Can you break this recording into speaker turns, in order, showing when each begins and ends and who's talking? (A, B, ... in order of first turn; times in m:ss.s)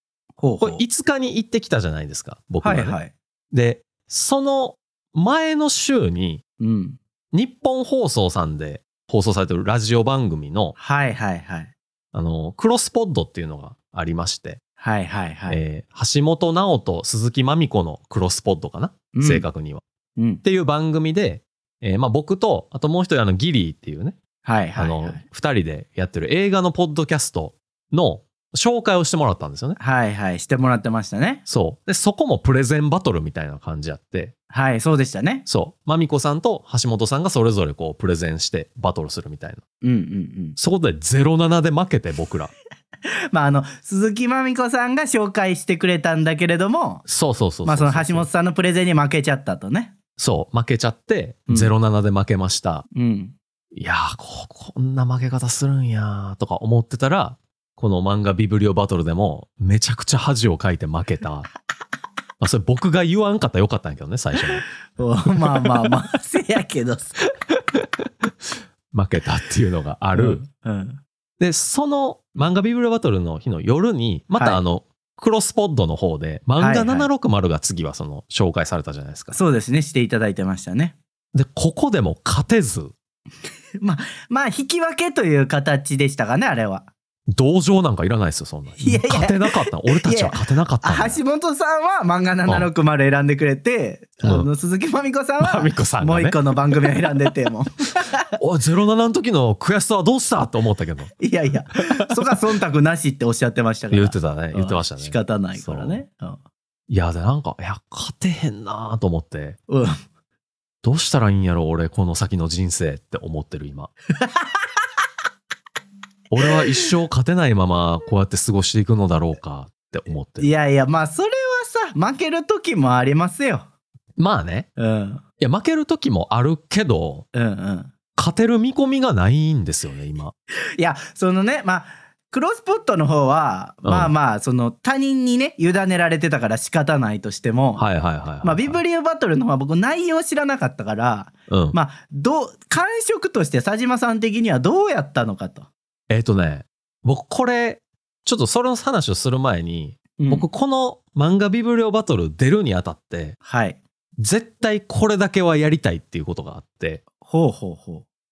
0:00.4-0:00.8 A
0:00.6-0:03.0 B
0:02.6-0:03.1 A
0:03.5-0:06.4 B
0:06.6-0:07.0 A
0:07.3-0:10.8 B
0:10.8-0:11.7 A
0:12.1-0:14.6 B
0:14.8-0:15.6 A
0:15.5-0:19.8 B
0:19.1-0:19.4 A
0:20.2-0:20.4 A
0:20.4-0:24.2 B
0:24.4-0:25.2 A
0:24.8-0:29.8 B
0:29.8-0:31.4 A
0:31.4-0:34.3 B
0:34.5-0:35.4 A
0:35.4-0:39.6 B
0:39.8-0:40.6 A
0:40.6-0:42.5 B
0:43.3-0:47.0 A
0:47.0-0:48.3 B
0:47.6-0:49.9 A
0:50.2-0:52.8 B
0:52.9-0:53.3 A
0:53.7-1:01.5 B
1:02.4-1:04.6 B
1:05.0-1:07.1 A
1:07.5-1:08.3 B
1:08.9-1:10.4 B
1:10.1-1:11.0 A
1:11.4-1:19.4 B
1:14.3-1:14.6 A
1:16.6-1:17.1 A
1:19.3-1:21.0 A
1:21.3-1:22.9 B
1:23.8-1:26.9 A
1:27.3-1:31.2 B
1:28.8-1:38.2 A
1:34.2-1:34.5 B
1:35.4-1:36.8 B
1:38.4-1:41.1 B
1:41.2-1:46.4 A
1:43.9-1:46.0 B
1:46.9-1:49.6 B
1:49.7-1:50.0 A
1:50.8-1:53.9 B
1:54.2-1:54.7 A
1:56.3-2:00.5 B
2:00.4-2:03.7 A
2:04.2-2:04.7 B
2:04.8-2:05.2 A
2:05.4-2:07.3 B
2:07.3-2:07.9 A
2:08.2-2:10.3 B
2:10.8-2:17.8 A
2:13.8-2:14.1 B
2:17.8-2:18.8 B
2:18.4-2:25.7 A
2:21.5-2:21.8 B
2:26.1-2:33.4 B
2:30.2-2:30.5 A
2:33.4-2:33.8 A
2:34.2-2:37.0 B
2:37.2-2:38.0 A